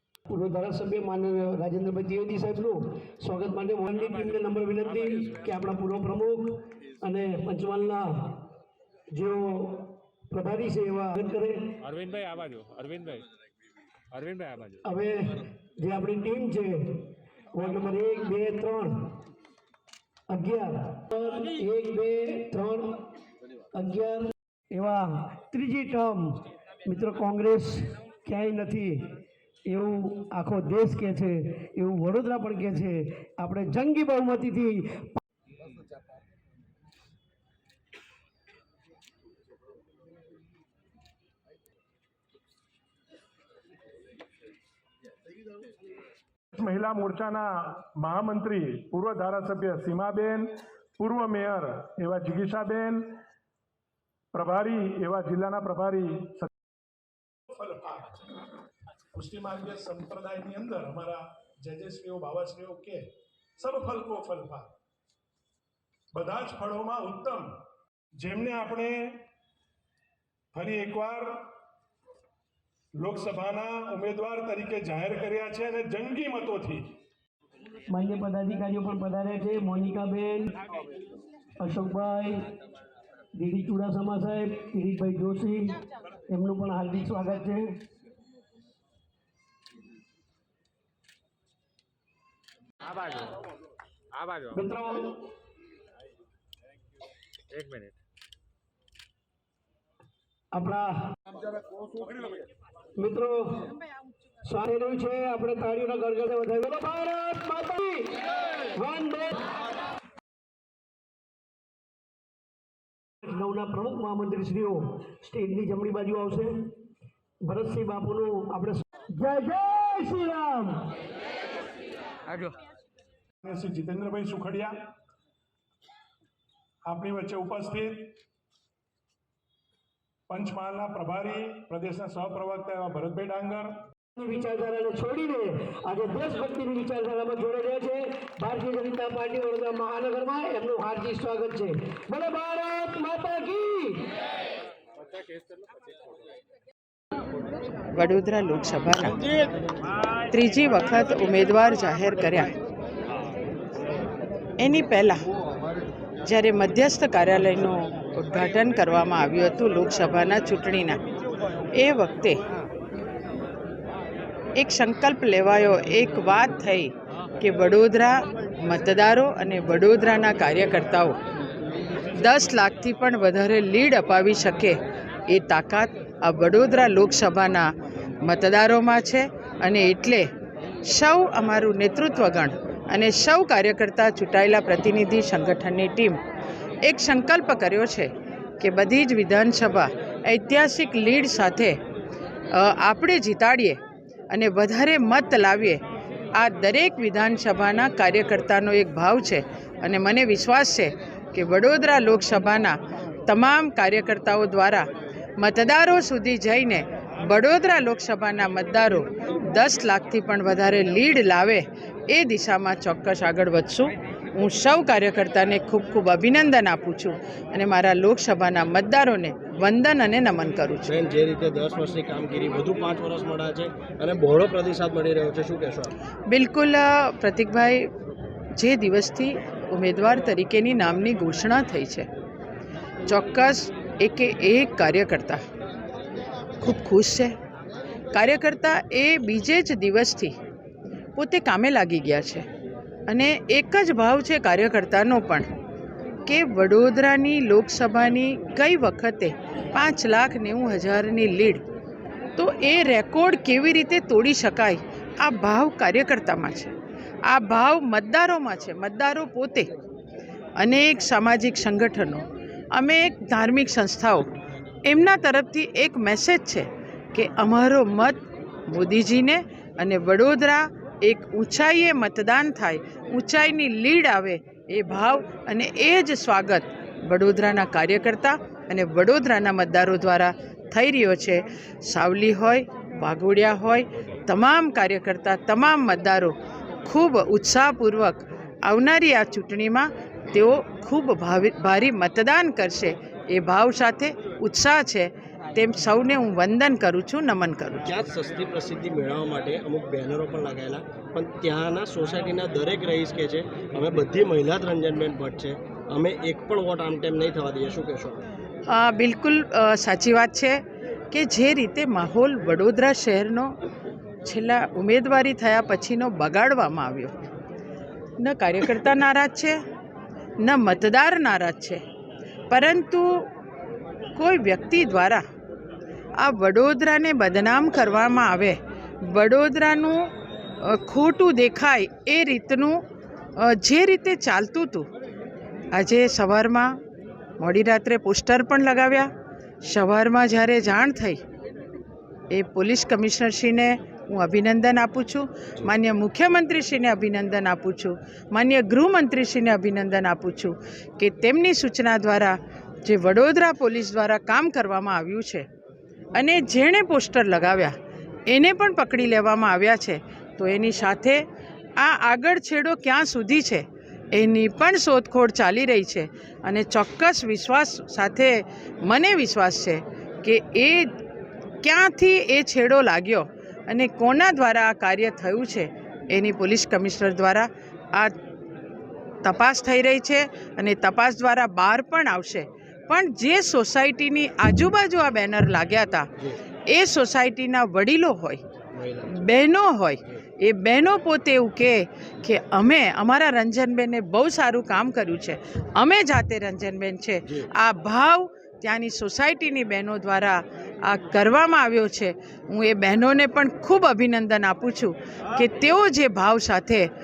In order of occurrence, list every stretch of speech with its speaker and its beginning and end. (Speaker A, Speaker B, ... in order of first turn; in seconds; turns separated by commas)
Speaker A: 0.3-8.4, Speaker A: 9.1-11.8, Speaker B: 11.9-13.2, Speaker B: 14.2-14.8, Speaker A: 14.8-19.1, Speaker A: 20.3-23.0, Speaker A: 23.7-26.3, Speaker A: 26.8-29.1, Speaker A: 29.6-35.2, Speaker C: 46.5-53.0, Speaker C: 54.3-56.5, Speaker C: 57.5-58.2, Speaker C: 59.1-63.0, Speaker C: 63.6-64.7, Speaker C: 66.1-67.5, Speaker C: 68.2-69.2, Speaker C: 70.5-71.5, Speaker C: 73.0-76.9, Speaker A: 77.9-80.5, Speaker A: 81.6-82.4, Speaker A: 83.3-85.7, Speaker A: 86.3-87.8, Speaker A: 94.5-95.2, Speaker B: 97.5-97.9, Speaker A: 100.5-101.0, Speaker A: 103.0-103.6, Speaker A: 104.4-108.1, Speaker A: 108.8-109.4, Speaker A: 113.2-116.6, Speaker A: 117.4-120.9, Speaker C: 123.4-124.7, Speaker C: 126.8-128.2, Speaker C: 130.3-133.8, Speaker A: 134.2-144.0, Speaker D: 147.9-149.2, Speaker D: 150.3-152.5, Speaker D: 154.6-155.2, Speaker D: 156.2-161.0, Speaker D: 161.7-162.4, Speaker D: 164.6-171.2, Speaker D: 172.1-177.7, Speaker D: 178.2-180.3, Speaker D: 180.8-186.2, Speaker D: 186.8-191.8, Speaker D: 192.5-193.8, Speaker D: 194.3-195.8, Speaker D: 196.3-220.9, Speaker E: 220.8-225.9, Speaker D: 226.3-227.9, Speaker D: 228.6-232.1, Speaker D: 233.1-235.4, Speaker D: 236.6-237.3, Speaker D: 238.1-240.3, Speaker D: 241.2-242.4, Speaker D: 243.1-245.5, Speaker D: 246.2-251.6, Speaker D: 252.4-256.7, Speaker D: 257.3-259.7, Speaker D: 260.6-264.3, Speaker D: 264.8-297.9, Speaker E: 297.8-308.2, Speaker D: 308.7-310.6, Speaker D: 311.1-313.6, Speaker D: 314.2-317.1, Speaker D: 318.2-319.5, Speaker D: 320.4-321.8, Speaker D: 322.5-323.3, Speaker D: 324.1-325.2, Speaker D: 326.2-330.1, Speaker D: 330.6-332.8, Speaker D: 333.4-334.9, Speaker D: 335.7-336.8, Speaker D: 337.4-339.1, Speaker D: 339.6-341.2, Speaker D: 342.3-355.4, Speaker D: 356.1-357.7, Speaker D: 358.3-361.2, Speaker D: 361.8-370.9, Speaker D: 371.6-378.1, Speaker D: 379.2-386.1, Speaker D: 386.7-388.4, Speaker E: 388.7-389.1, Speaker D: 389.0-406.9